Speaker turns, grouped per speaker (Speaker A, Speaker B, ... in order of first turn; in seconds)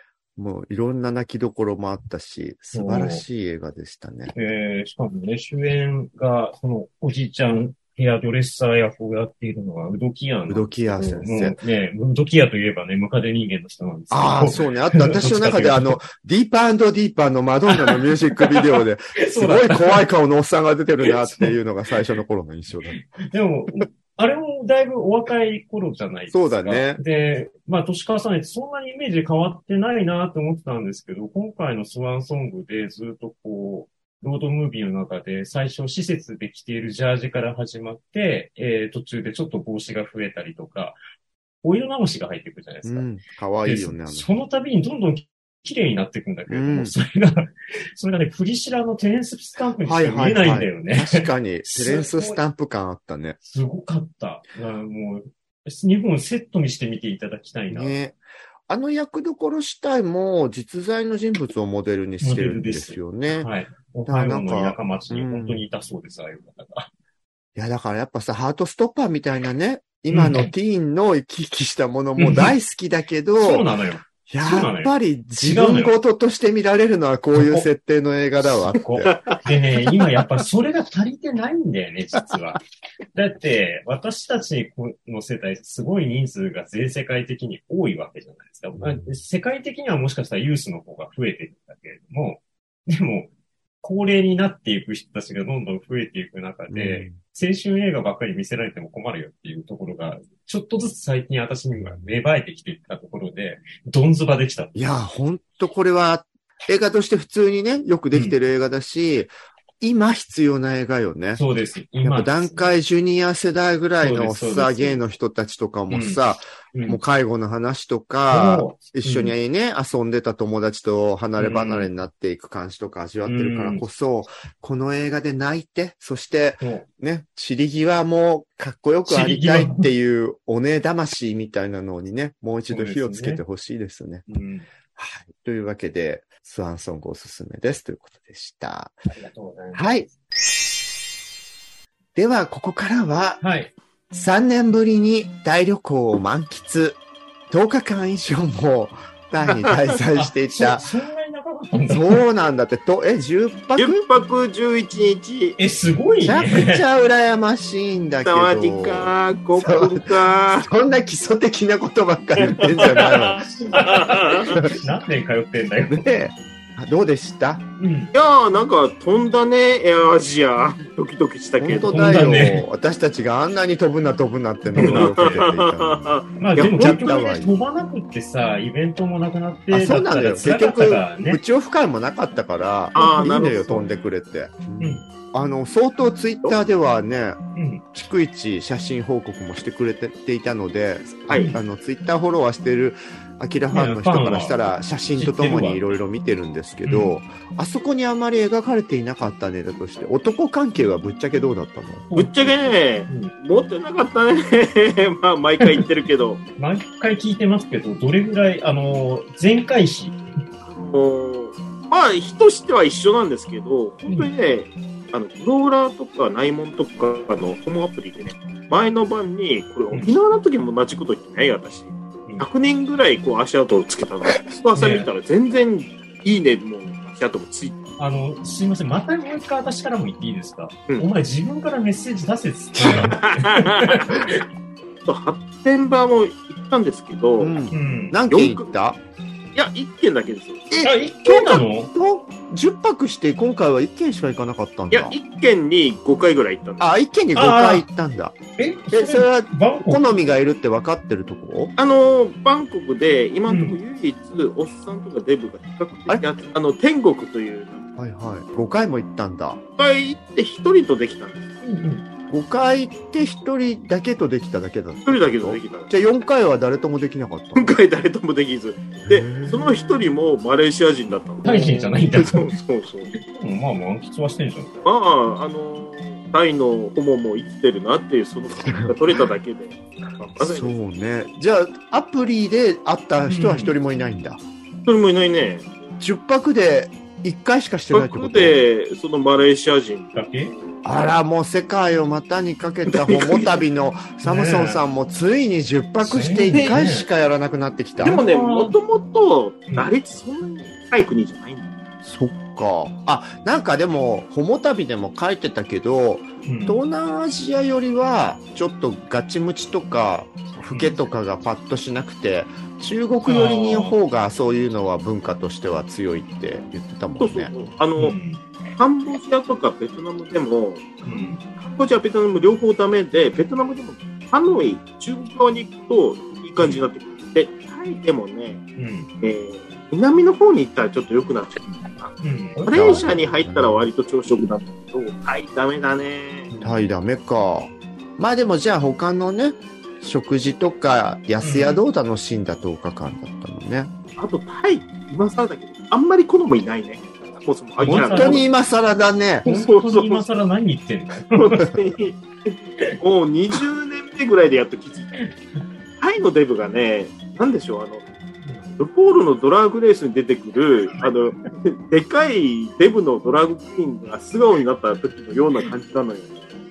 Speaker A: 0.4-4.3, 10.5-11.6, 14.1-23.1, 26.3-27.0, 42.8-44.3, 46.5-46.9, 49.8-53.4, 57.7-63.5, 64.0-65.6, 67.5-73.7, 74.3-79.2, 88.8-89.0, 96.7-97.2, 104.7-111.4, 112.0-134.2, 134.9-139.0, 139.7-140.1, 142.1-143.4, 144.1-150.8, 151.9-154.0, 156.2-163.5, 165.9-167.6, 171.6-177.5, 179.7-187.4, 187.9-202.6, 237.4-239.0, 240.7-245.2, 246.8-248.4, 248.9-251.7, 258.0-259.6, 262.3-267.8, 269.0-269.7, 278.6-278.9, 280.4-284.4, 286.0-288.6, 290.8-298.2, 302.0-317.5, 332.7-333.9, 336.6-343.9, 347.9-349.4
Speaker B: 2.7-3.2, 4.3-16.0, 17.7-20.1, 21.1-21.6, 22.9-41.0, 41.6-43.1, 43.6-52.4, 53.4-58.0, 62.2-66.9, 70.1-70.5, 72.2-72.5, 73.4-75.9, 77.3-77.7, 78.8-82.6, 83.1-93.3, 93.8-104.8, 111.3-112.7, 114.0-115.0, 115.9-116.2, 116.7-117.0, 118.3-119.3, 121.4-121.9, 123.2-123.8, 126.6-126.8, 129.1-129.9, 132.7-133.4, 134.3-134.7, 139.1-139.9, 143.4-143.7, 150.1-152.2, 155.6-156.8, 163.7-166.1, 167.8-168.1, 171.8-172.6, 174.7-175.5, 176.4-181.4, 182.9-183.8, 184.8-185.0, 187.5-187.8, 191.3-191.6, 193.7-194.6, 195.2-195.9, 196.8-197.1, 202.1-202.4, 203.1-203.3, 206.6-210.2, 224.7-225.1, 228.0-234.4, 237.7-238.2, 240.8-241.9, 247.3-247.8, 248.6-250.1, 253.5-253.8, 261.6-262.0, 271.4-272.5, 273.2-274.7, 283.2-283.8, 290.1-290.5, 294.2-294.8, 296.0-297.1, 298.0-298.8, 306.4-306.8, 310.7-310.9, 313.2-314.0, 318.0-318.4, 321.0-321.4, 326.6-326.8, 328.8-329.1, 331.7-333.1, 336.5-336.8, 341.4-341.8, 347.8-348.4, 349.4-351.7, 355.2-355.6
Speaker C: 79.1-79.4, 153.8-155.6, 158.2-160.7, 162.4-164.6, 168.1-172.2, 174.8-176.9, 182.9-183.8, 202.1-206.4, 210.6-227.8, 232.8-234.1, 235.1-237.6, 238.3-238.7, 239.5-240.7, 244.9-246.9, 251.8-257.8, 259.8-261.5, 265.0-265.9, 267.5-273.1, 274.8-280.8, 284.9-285.7, 287.9-290.1, 292.9-293.6, 296.5-296.8, 298.0-301.7, 317.2-318.2, 318.8-328.6, 329.2-336.5, 344.2-348.4, 349.4-350.2, 351.3-355.2, 356.0-358.0, 358.8-366.4